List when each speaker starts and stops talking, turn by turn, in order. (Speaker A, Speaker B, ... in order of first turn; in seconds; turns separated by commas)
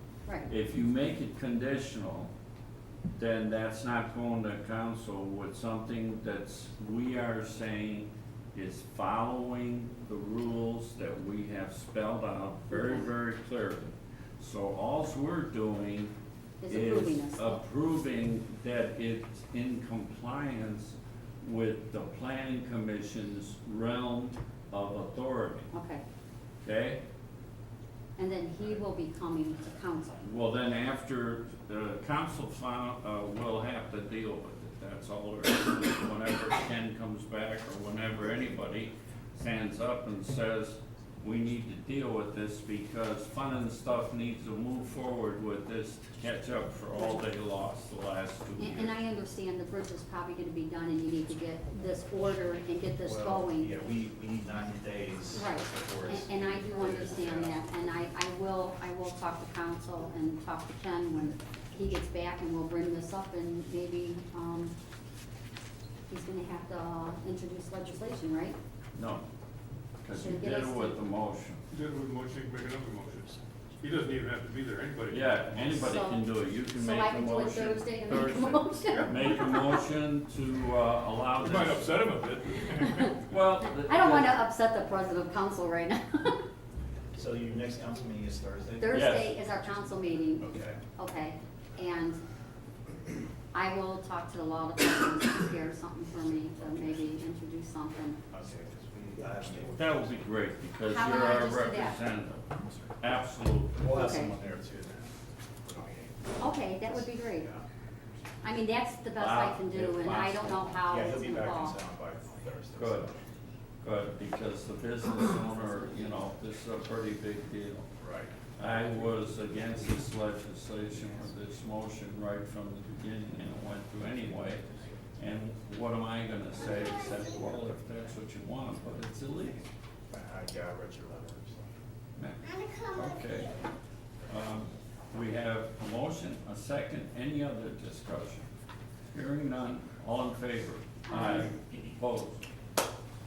Speaker A: 0.3-0.5, Speaker B: 0.5-2.3, Speaker B: 3.1-16.1, Speaker A: 16.6-17.6, Speaker B: 16.7-25.7, Speaker A: 25.7-26.0, Speaker B: 26.6-27.0, Speaker A: 28.2-30.3, Speaker B: 30.2-48.9, Speaker A: 48.6-53.7, Speaker C: 53.0-57.6, Speaker A: 55.3-64.7, Speaker A: 66.1-68.6, Speaker B: 68.9-69.2, Speaker B: 70.0-71.6, Speaker A: 70.1-71.0, Speaker D: 71.7-75.8, Speaker B: 75.1-82.0, Speaker A: 75.8-79.9, Speaker D: 78.9-79.3, Speaker D: 81.3-83.2, Speaker B: 83.2-84.4, Speaker A: 83.8-86.4, Speaker C: 87.1-89.2, Speaker A: 88.8-92.2, Speaker B: 88.9-89.3, Speaker C: 90.4-90.8, Speaker A: 93.5-98.2, Speaker C: 98.3-100.1, Speaker B: 99.7-103.8, Speaker A: 100.8-102.0, Speaker C: 103.7-107.7, Speaker A: 103.9-104.3, Speaker A: 106.4-107.5, Speaker A: 108.4-111.8, Speaker B: 109.2-110.9, Speaker C: 110.9-113.4, Speaker B: 112.8-113.1, Speaker B: 113.8-117.9, Speaker C: 118.0-118.4, Speaker B: 118.6-124.7, Speaker B: 125.2-129.6, Speaker C: 130.1-131.7, Speaker B: 132.2-133.6, Speaker B: 134.3-138.5, Speaker B: 139.1-142.5, Speaker A: 141.1-141.5